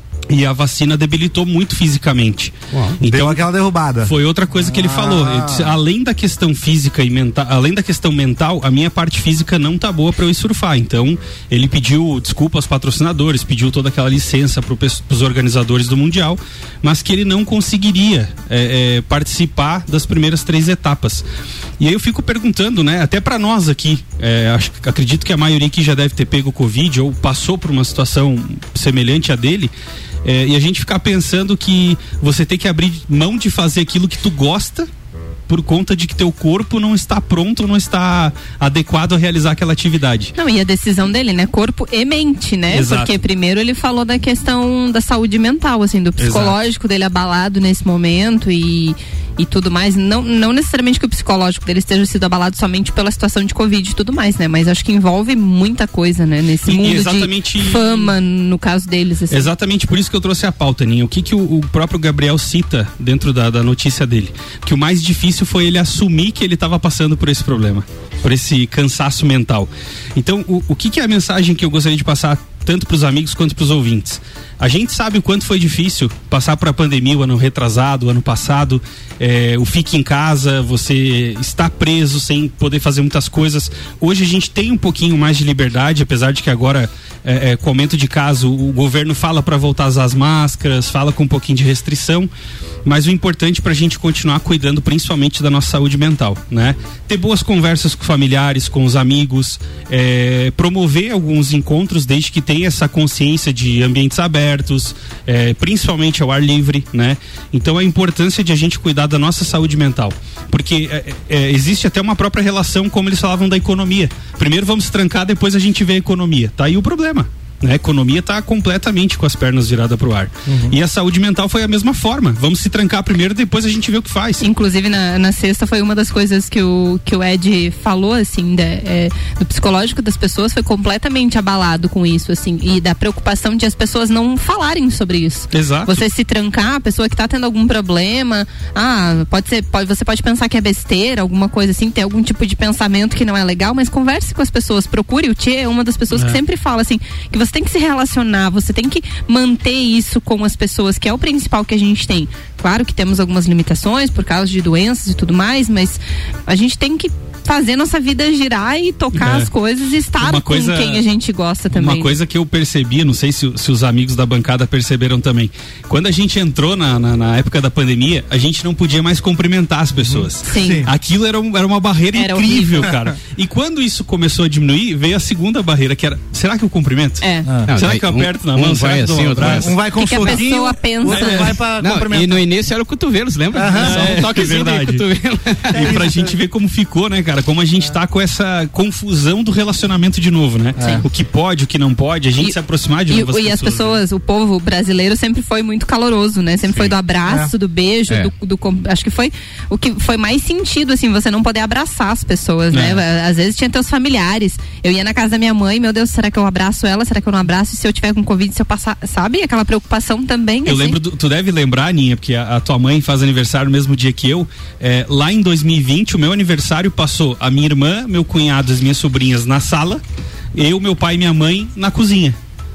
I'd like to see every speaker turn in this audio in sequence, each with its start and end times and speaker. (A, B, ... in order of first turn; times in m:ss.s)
0:00.3-0:03.4 A
0:02.7-0:03.0 B
0:03.0-0:05.8 C
0:04.0-0:21.2 A
0:21.8-0:29.7 A
0:30.2-0:34.9 A
0:35.5-0:40.3 A
0:40.4-0:59.5 D
0:42.7-0:43.1 A
0:46.2-0:46.6 A
0:56.6-0:58.1 A
0:59.3-1:32.3 A
1:32.8-2:04.4 A
2:00.5-2:00.8 C
2:04.4-2:42.2 D
2:15.5-2:16.0 A
2:26.2-2:26.4 A
2:39.2-2:39.5 A
2:40.2-2:41.0 A
2:41.7-2:59.8 A
2:50.0-2:50.9 C
2:50.4-2:50.8 D
2:52.1-2:52.9 D
2:57.2-2:57.5 D
2:57.7-2:59.8 B
2:59.4-3:02.4 C
3:00.0-3:01.6 D
3:01.1-3:06.0 B
3:03.5-3:04.4 C
3:03.8-3:05.0 A
3:05.7-3:06.3 C
3:05.7-3:14.0 A
3:10.8-3:11.0 C
3:13.1-3:31.0 D
3:17.3-3:17.5 C
3:22.7-3:23.0 A
3:30.6-3:40.0 A
3:40.5-3:42.4 A